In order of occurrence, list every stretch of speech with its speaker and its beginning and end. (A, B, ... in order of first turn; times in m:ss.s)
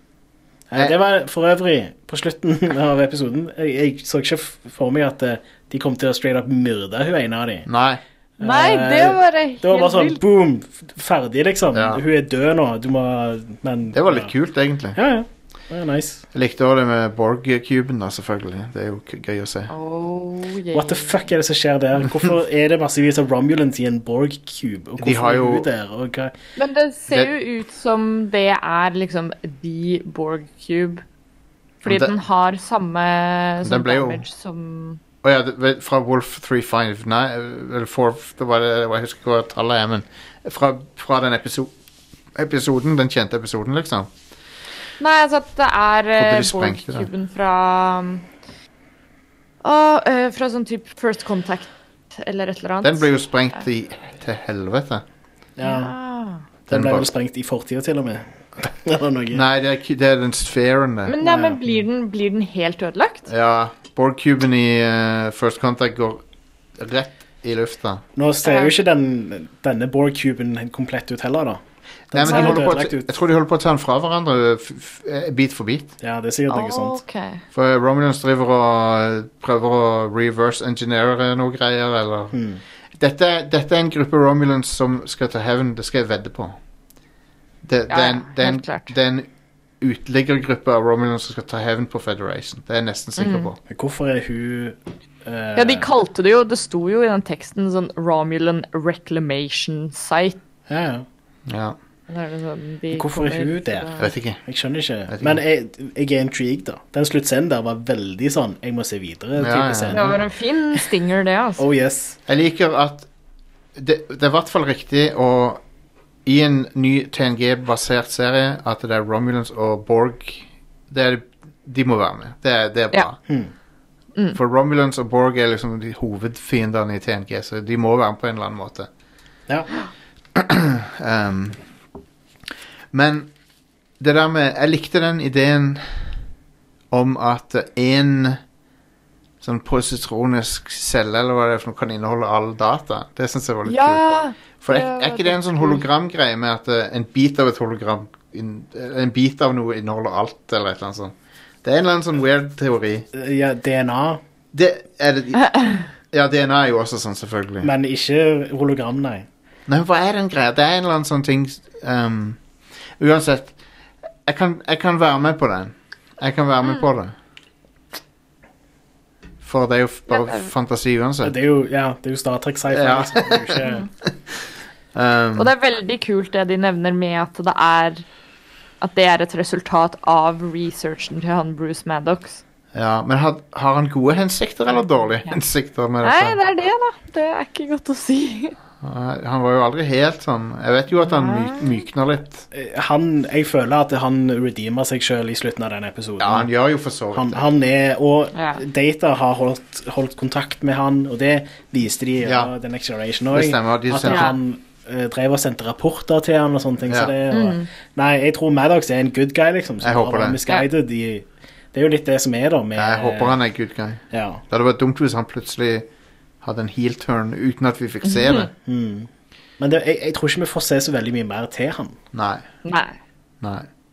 0:00.7-0:07.7 A
0:07.6-0:08.0 B
0:08.4-0:14.3 A
0:08.4-0:10.2 C
0:11.7-0:12.0 B
0:13.9-0:15.0 B
0:14.9-0:16.2 A
0:16.3-0:19.7 B
0:19.7-0:21.3 C
0:20.7-0:26.3 A
0:25.0-0:25.7 B
0:26.6-0:31.0 C
0:31.8-0:32.1 B
0:31.8-0:35.0 C
0:33.6-0:34.2 B
0:35.2-0:41.7 B
0:42.3-0:44.1 B
0:45.0-0:48.3 C
0:46.2-0:47.1 B
0:49.6-0:53.1 C
0:52.8-0:55.0 B
0:55.6-0:55.9 A
0:55.6-0:56.4 C
0:56.7-0:59.4 A
0:56.7-0:57.1 B
0:59.3-1:01.2 B
1:01.0-1:03.3 C
1:01.2-1:01.6 A
1:03.3-1:06.2 B
1:06.8-1:08.0 B
1:08.2-1:11.6 A
1:08.4-1:08.7 C
1:12.1-1:13.1 A
1:12.1-1:15.9 B
1:12.2-1:12.6 C
1:16.0-1:17.0 A
1:16.5-1:17.4 C
1:17.5-1:22.4 B
1:22.3-1:22.6 A
1:23.0-1:26.6 B
1:27.6-1:29.3 B
1:27.9-1:28.9 C
1:29.8-1:33.6 B
1:33.2-1:33.5 C
1:33.7-1:35.9 A
1:35.5-1:40.4 C
1:40.7-1:41.0 A
1:41.5-1:41.8 B
1:42.1-1:44.1 C
1:42.9-1:43.9 A
1:44.0-1:44.4 B
1:44.4-1:50.2 A
1:45.1-1:45.4 B
1:49.4-1:50.1 B
1:49.9-1:51.6 C
1:51.6-1:52.2 A
1:52.3-1:53.1 B
1:53.8-1:55.6 B
1:56.2-2:03.2 B
2:04.3-2:08.9 B
2:10.3-2:11.6 B
2:12.9-2:13.3 B
2:14.0-2:16.1 B
2:16.9-2:18.4 B
2:19.4-2:33.1 B
2:23.6-2:25.8 C
2:33.1-2:34.2 A
2:34.5-2:37.7 B
2:37.6-2:39.3 A
2:39.7-2:42.4 B
2:43.0-2:43.5 B
2:44.2-2:47.1 B
2:49.4-2:51.3 B
2:50.1-2:50.5 C
2:51.2-2:53.8 A
2:52.7-2:53.6 B
2:53.6-2:53.9 C
2:54.9-2:55.5 B
2:55.4-2:58.0 C
2:58.8-3:02.4 C
3:02.7-3:06.4 B
3:04.7-3:05.4 C
3:06.0-3:08.6 C
3:08.8-3:12.5 B
3:11.0-3:11.8 C
3:12.5-3:16.5 A
3:16.2-3:17.4 B
3:17.1-3:33.4 A
3:18.3-3:18.6 C
3:22.2-3:22.5 B
3:23.3-3:24.3 B
3:24.1-3:24.4 C
3:26.9-3:27.1 B
3:27.3-3:27.7 C
3:29.8-3:30.4 B
3:32.8-3:35.9 B
3:34.1-3:34.4 A
3:36.4-3:38.5 B
3:38.1-3:38.4 C
3:38.6-3:42.0 A
3:42.1-3:42.4 B
3:42.6-3:42.9 C
3:43.4-3:43.7 B